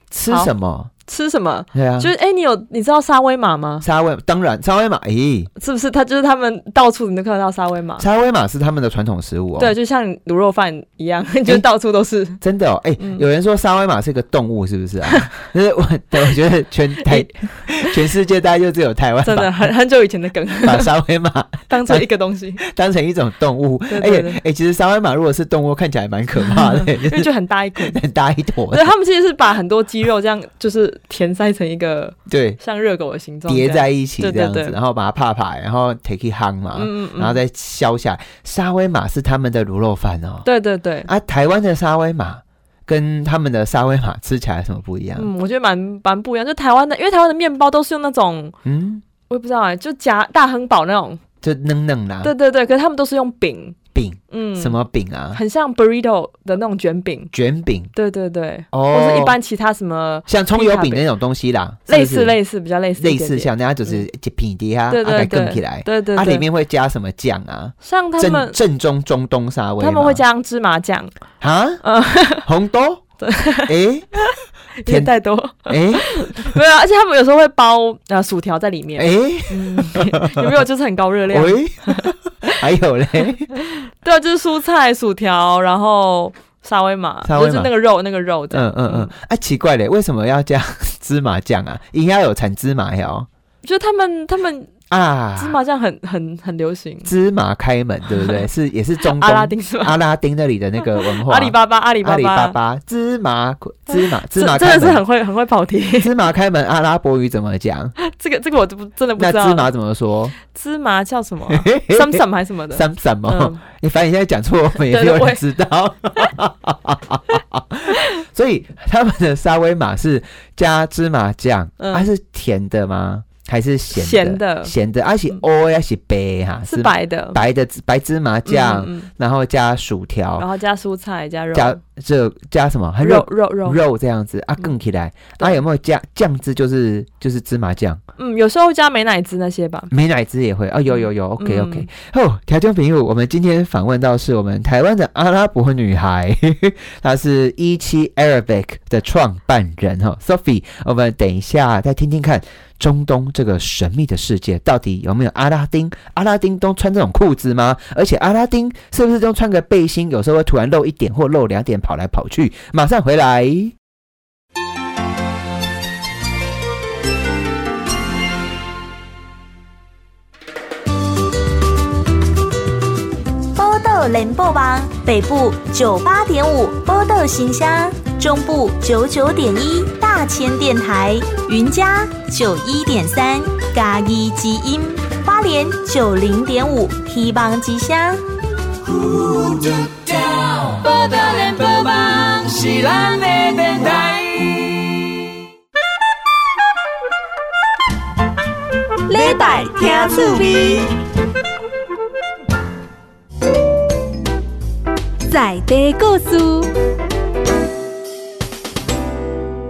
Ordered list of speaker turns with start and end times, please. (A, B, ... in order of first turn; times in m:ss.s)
0:00.1-0:00.9 A
0:01.1-0:03.9 B
0:01.7-0:02.1 A
0:03.8-0:05.5 A
0:05.6-0:08.1 B
0:08.0-0:09.7 A
0:09.6-0:12.4 B
0:12.4-0:19.6 A
0:13.0-0:13.2 B
0:17.0-0:17.3 B
0:19.2-0:20.9 B
0:20.6-0:22.1 A
0:21.7-0:22.6 B
0:22.6-0:28.9 A
0:23.9-0:24.4 B
0:26.5-0:28.0 B
0:28.7-0:34.8 B
0:32.3-0:32.6 A
0:33.5-0:40.5 A
0:36.8-0:37.4 B
0:40.4-0:41.1 B
0:41.1-0:45.3 A
0:45.2-0:48.6 B
0:48.6-0:49.0 A
0:49.3-0:51.2 B
0:51.4-0:52.3 A
0:52.2-0:53.8 B
0:53.9-0:55.4 A
0:54.3-0:54.8 B
0:55.3-0:57.3 B
0:57.3-0:57.9 A
0:57.9-1:01.0 B
0:58.7-0:59.4 A
1:00.3-1:02.4 A
1:01.9-1:04.0 B
1:03.0-1:10.2 A
1:04.9-1:06.4 B
1:07.8-1:08.6 B
1:09.8-1:11.1 B
1:11.4-1:13.0 A
1:11.8-1:12.4 B
1:13.2-1:22.1 B
1:13.7-1:14.1 A
1:14.9-1:15.1 A
1:15.6-1:16.6 A
1:19.0-1:20.6 A
1:21.3-1:23.5 A
1:23.7-1:29.1 B
1:27.2-1:27.7 A
1:28.5-1:33.3 A
1:33.6-1:34.7 B
1:34.9-1:35.6 A
1:35.4-1:37.1 B
1:37.0-1:45.0 A
1:38.2-1:38.4 B
1:39.0-1:40.0 B
1:40.8-1:42.6 B
1:43.9-1:46.1 B
1:46.0-1:47.9 A
1:48.0-1:49.7 B
1:49.2-1:50.4 A
1:50.4-1:53.6 B
1:51.5-2:10.5 A
1:54.8-1:55.4 B
2:01.8-2:02.1 B
2:03.9-2:04.7 B
2:06.7-2:07.4 B
2:08.5-2:09.1 B
2:10.4-2:11.8 B
2:11.5-2:18.0 A
2:13.0-2:13.8 B
2:18.2-2:19.9 B
2:19.9-2:43.7 A
2:20.9-2:21.9 B
2:53.6-3:08.2 C
3:08.8-3:15.1 D
3:19.1-3:20.8 E
3:19.1-3:20.8 D
3:25.3-3:26.7 E